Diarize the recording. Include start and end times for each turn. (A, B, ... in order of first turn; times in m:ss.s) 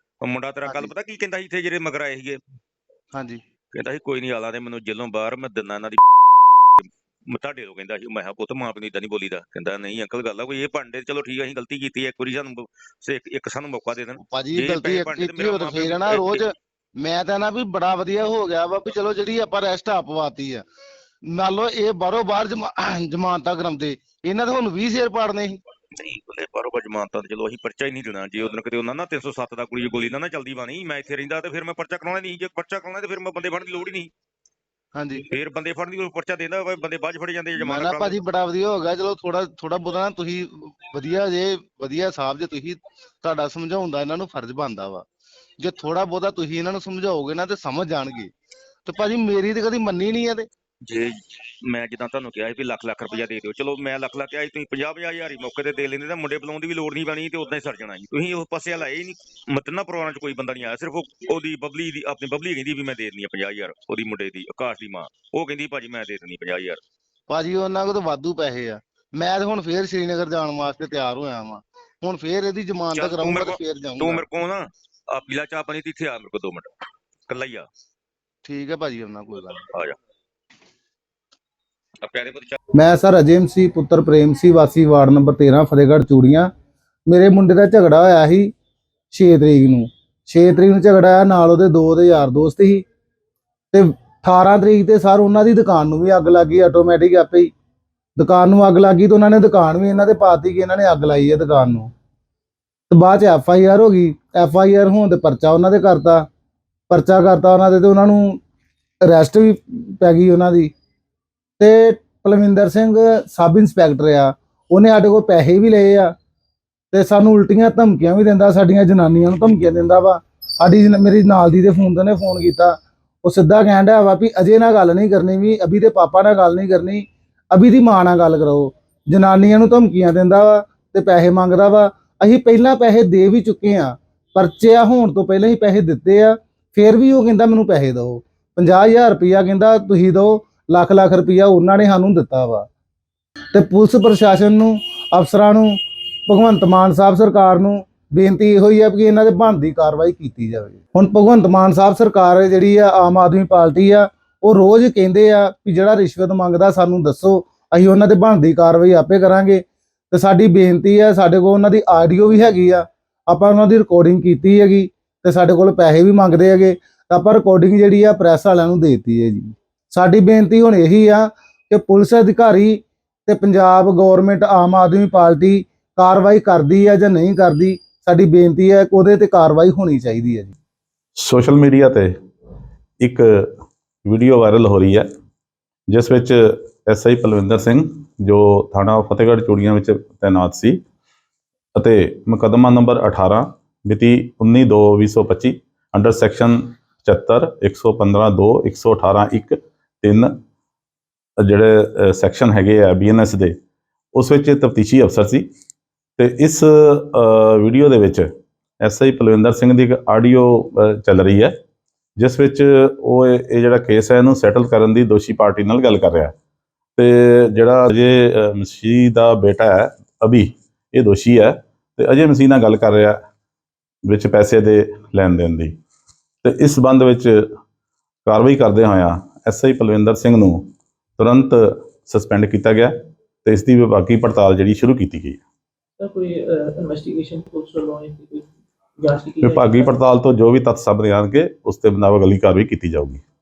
0:00.2-0:02.4 A
0:00.7-0:00.9 B
0:03.1-0:03.4 B
0:03.7-0:16.4 A
0:14.3-0:20.6 B
0:21.3-0:25.6 B
0:26.0-0:34.1 A
0:35.0-0:35.3 B
0:35.3-0:38.2 A
0:37.6-0:45.0 B
0:45.6-0:48.3 B
0:48.9-0:50.5 B
0:50.8-1:06.8 A
1:07.3-1:14.3 B
1:12.9-1:16.7 A
1:17.3-1:17.7 A
1:18.4-1:19.6 B
1:19.4-1:20.0 A
1:22.0-1:22.6 A
1:22.8-1:26.5 C
1:27.1-1:28.5 C
1:29.1-1:32.9 C
1:33.7-1:37.5 C
1:38.2-1:41.9 C
1:42.9-1:46.3 C
1:46.9-1:48.4 C
1:49.0-1:50.7 C
1:51.6-1:56.1 C
1:56.9-2:22.7 C
2:23.5-3:00.5 C
3:01.2-3:02.1 D
3:03.0-3:03.5 D
3:04.0-3:05.1 D
3:05.9-3:10.8 D
3:11.8-3:20.3 D
3:21.4-3:23.6 D
3:24.2-3:25.5 D
3:26.2-3:28.3 D
3:28.8-3:31.6 D
3:32.2-3:36.3 D
3:37.0-3:43.2 D
3:44.1-3:45.8 D
3:46.4-3:47.5 D
3:48.3-3:55.4 D
3:56.0-4:00.0 E
3:59.4-4:03.2 D